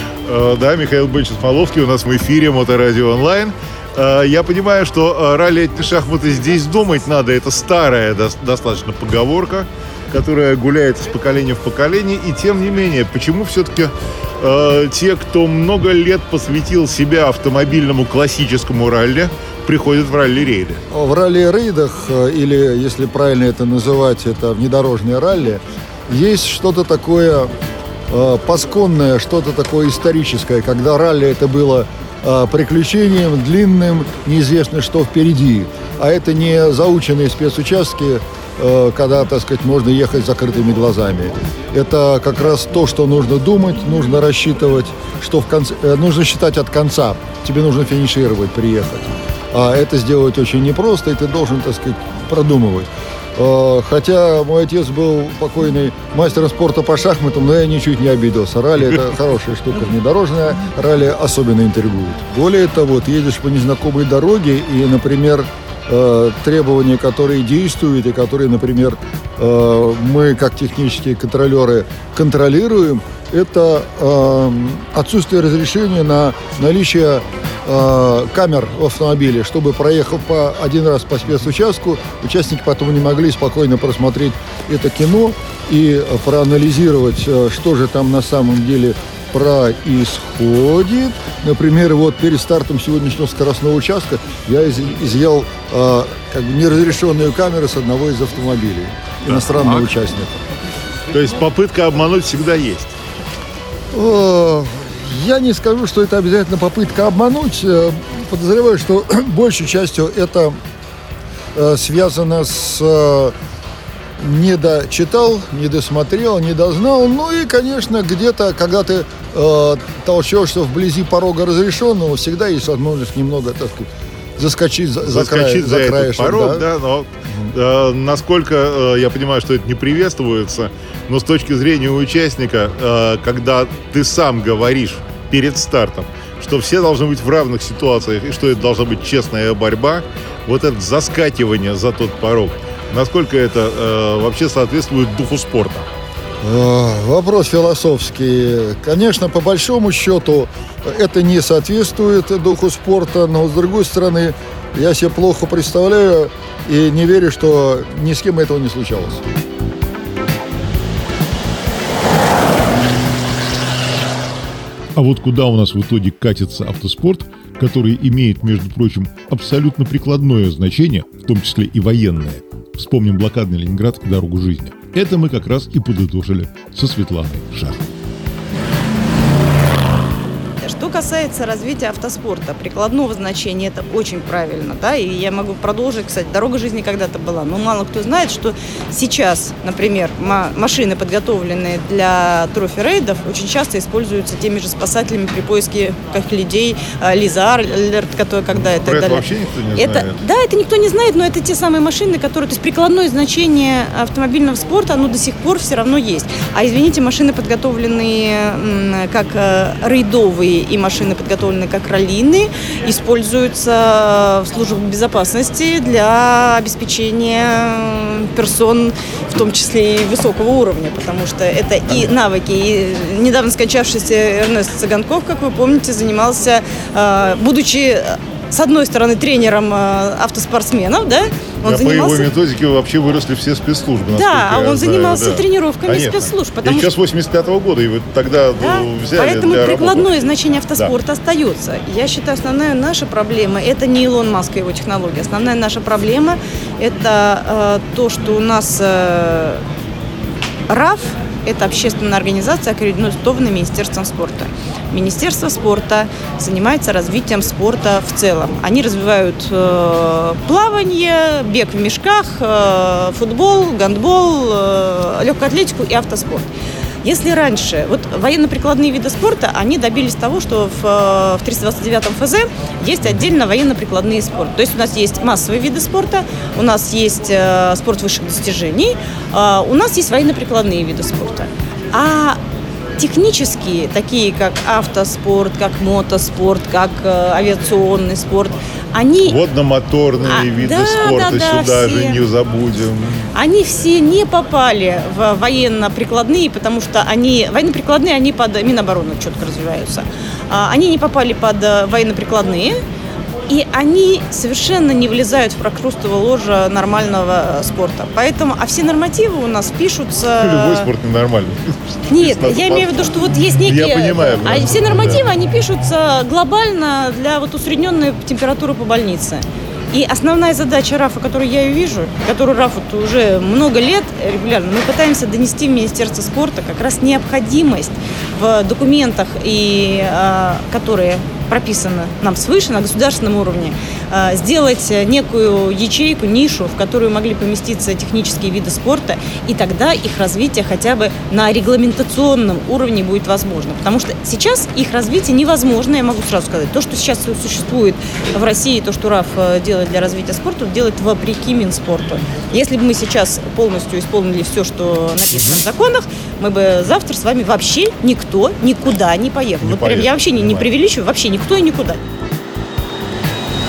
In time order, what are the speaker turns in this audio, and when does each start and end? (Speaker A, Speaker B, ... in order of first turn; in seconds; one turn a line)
Speaker A: 0.3-20.8
Speaker B: 20.9-27.5
Speaker B: 28.1-100.4
Speaker A: 99.3-100.0
Speaker A: 101.1-103.0
Speaker B: 103.9-110.6
Speaker B: 111.5-113.3
Speaker B: 114.2-126.7
Speaker A: 125.0-145.9
Speaker B: 146.4-159.2
Speaker A: 165.0-177.9
Speaker C: 180.6-232.3
Speaker A: 198.7-200.2
Speaker A: 231.7-240.9
Speaker C: 234.1-236.9
Speaker C: 238.6-249.6
Speaker C: 250.7-266.5
Speaker C: 267.0-282.4
Speaker C: 283.0-289.4
Speaker A: 289.2-293.3
Speaker C: 290.2-292.3
Speaker C: 293.3-302.8
Speaker C: 303.5-310.9
Speaker A: 310.4-315.3
Speaker C: 312.1-362.0
Speaker A: 355.4-355.6
Speaker A: 359.6-360.7